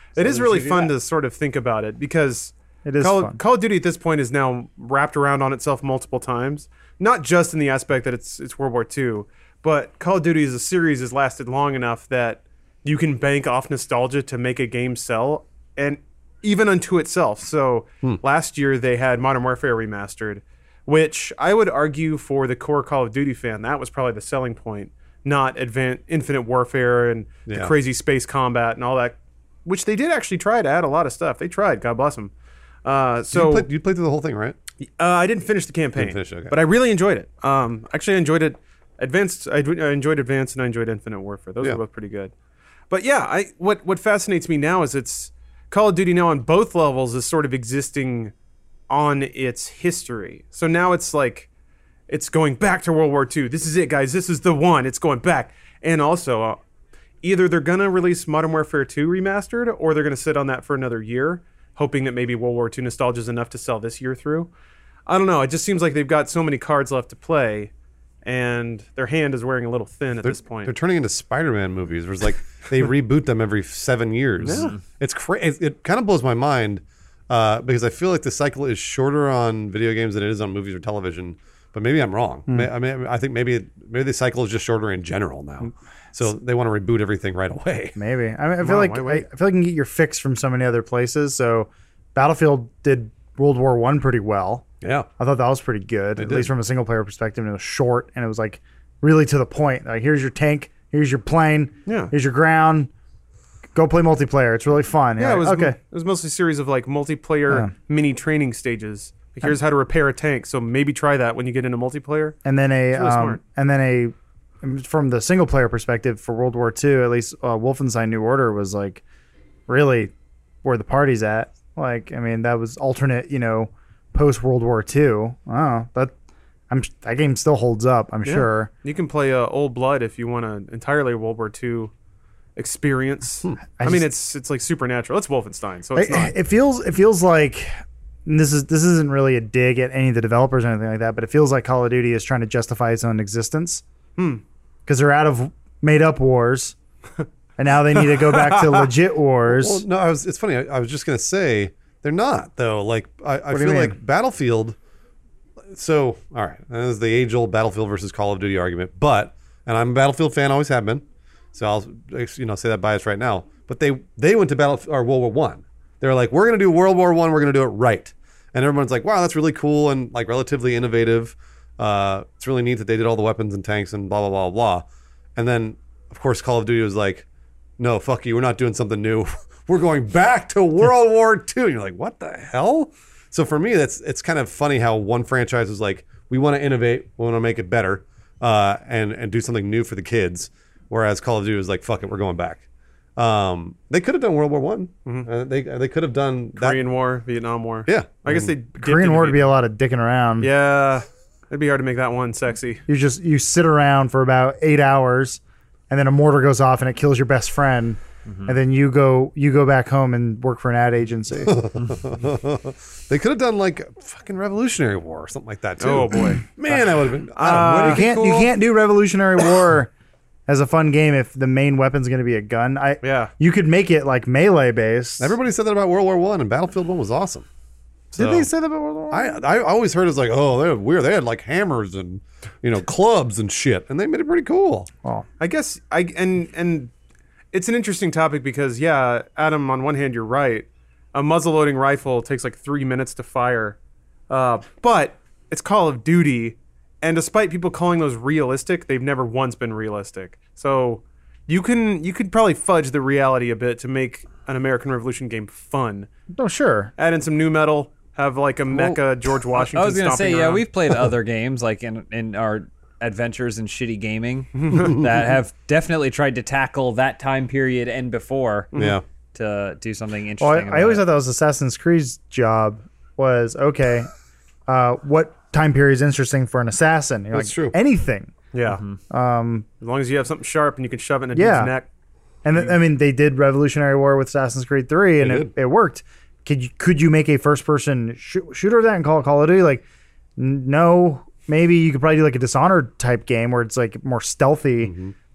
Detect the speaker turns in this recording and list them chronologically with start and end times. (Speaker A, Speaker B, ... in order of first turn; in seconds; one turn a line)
Speaker A: 0.2-32.3
Speaker B: 0.2-0.9
Speaker C: 2.9-3.4
Speaker D: 27.5-27.8
Speaker A: 32.8-33.7
Speaker D: 33.3-34.6
Speaker A: 34.8-42.3
Speaker D: 36.0-36.6
Speaker A: 42.9-48.3
Speaker A: 48.9-51.5
Speaker A: 52.1-56.6
Speaker A: 57.2-64.5
Speaker A: 65.1-67.7
Speaker A: 68.2-70.7
Speaker D: 70.2-88.0
Speaker A: 74.4-74.7
Speaker B: 74.4-74.8
Speaker C: 88.0-94.7
Speaker A: 88.6-89.2
Speaker D: 94.8-95.1
Speaker C: 95.2-102.9
Speaker D: 96.2-96.5
Speaker A: 101.9-102.1
Speaker C: 103.7-105.8
Speaker A: 105.2-112.4
Speaker C: 112.5-119.0
Speaker A: 112.9-113.4
Speaker C: 119.7-120.1
Speaker C: 120.6-126.2
Speaker C: 126.7-128.7
Speaker A: 128.2-131.9
Speaker A: 132.6-136.3
Speaker C: 133.8-134.1
Speaker C: 136.0-143.8
Speaker A: 144.2-144.4
Speaker C: 144.9-146.8
Speaker C: 147.6-149.8
Speaker A: 147.9-148.9
Speaker D: 149.5-154.8
Speaker C: 153.5-154.0
Speaker D: 155.7-174.8
Speaker D: 175.4-177.3
Speaker D: 177.8-192.6
Speaker D: 193.2-196.8
Speaker A: 196.6-199.5
Speaker D: 197.9-198.5
Speaker C: 198.8-200.5
Speaker A: 200.4-202.8
Speaker C: 202.9-211.7
Speaker B: 208.3-208.6
Speaker D: 211.3-218.0
Speaker A: 215.8-216.4
Speaker A: 217.3-218.1
Speaker B: 217.4-218.5
Speaker C: 217.8-219.9
Speaker C: 220.5-225.3
Speaker A: 223.0-223.3
Speaker D: 225.2-227.5
Speaker D: 228.1-228.5
Speaker C: 228.2-229.4
Speaker D: 229.1-234.9
Speaker A: 235.4-236.9
Speaker A: 237.5-243.8
Speaker A: 244.3-256.1
Speaker C: 256.4-256.9
Speaker A: 257.0-260.6
Speaker B: 259.6-268.7
Speaker A: 264.6-265.0
Speaker A: 268.7-269.0
Speaker D: 268.7-269.0
Speaker B: 269.3-271.1
Speaker C: 270.4-274.1
Speaker C: 274.7-278.3
Speaker D: 277.3-277.8
Speaker A: 278.5-278.8
Speaker B: 278.7-279.0
Speaker C: 279.1-279.7
Speaker A: 279.8-281.9
Speaker C: 281.3-281.7
Speaker C: 282.4-289.9
Speaker D: 285.2-285.5
Speaker C: 290.4-294.9
Speaker D: 294.8-295.1